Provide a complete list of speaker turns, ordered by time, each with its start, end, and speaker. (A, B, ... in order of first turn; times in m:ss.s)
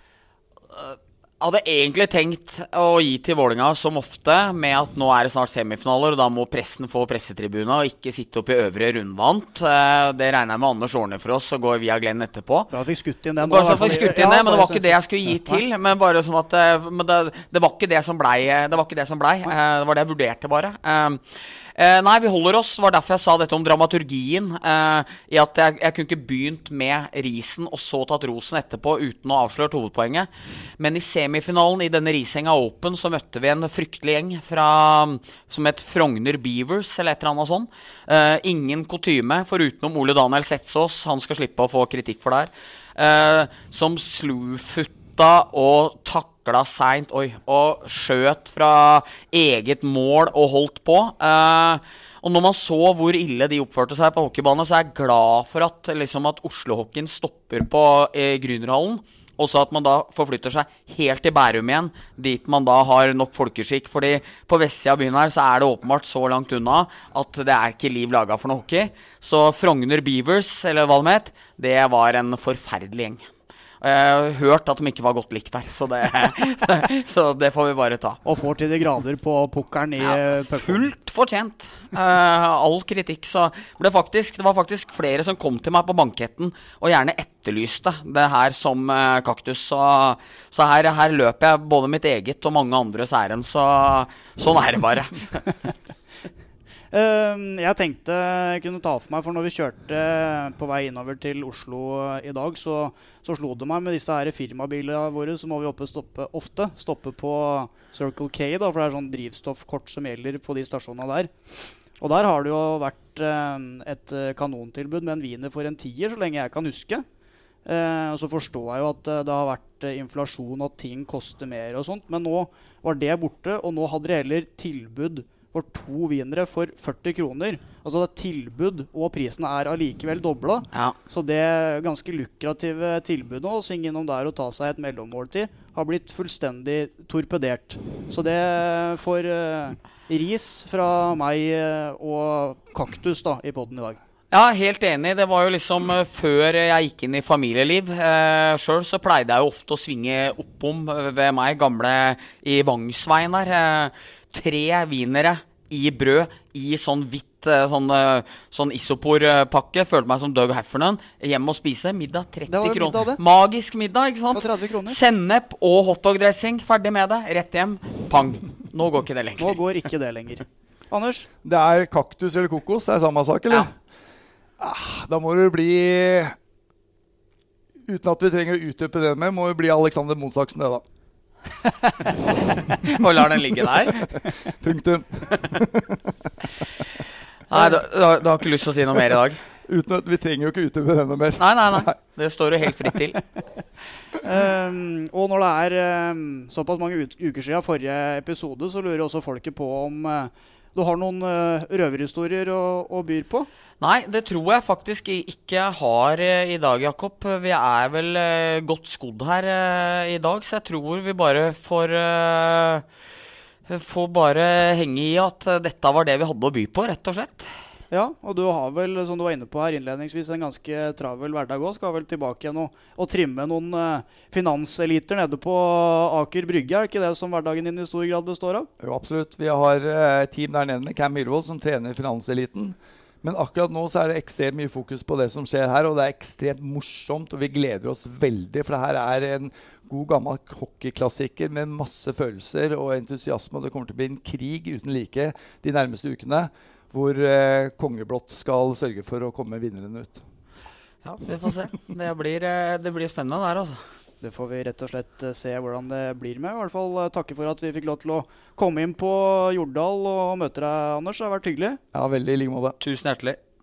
0:00.7-0:12.7 A
0:12.7-0:15.6 B
0:13.4-1:13.2 A
1:13.8-1:18.2 A
1:18.2-1:20.9 B
1:20.0-1:35.4 A
1:36.9-1:57.0 B
1:57.6-2:24.0 B
2:24.3-2:49.6 A
2:42.5-2:43.2 B
2:44.3-2:45.0 B
2:49.4-2:51.3 B
2:51.4-2:53.7 C
2:54.6-2:56.3 C
2:57.9-3:00.8 C
3:02.7-3:04.1 A
3:04.1-3:06.3 C
3:07.5-3:09.4 A
3:09.7-3:11.9 C
3:11.4-3:13.2 A
3:14.2-3:23.5 B
3:23.8-3:32.8 A
3:33.7-3:37.5 A
3:37.9-3:48.7 B
3:48.8-4:10.2 C
4:11.0-4:13.8 A
4:14.2-4:21.8 B
4:21.9-4:22.8 C
4:22.8-4:23.4 A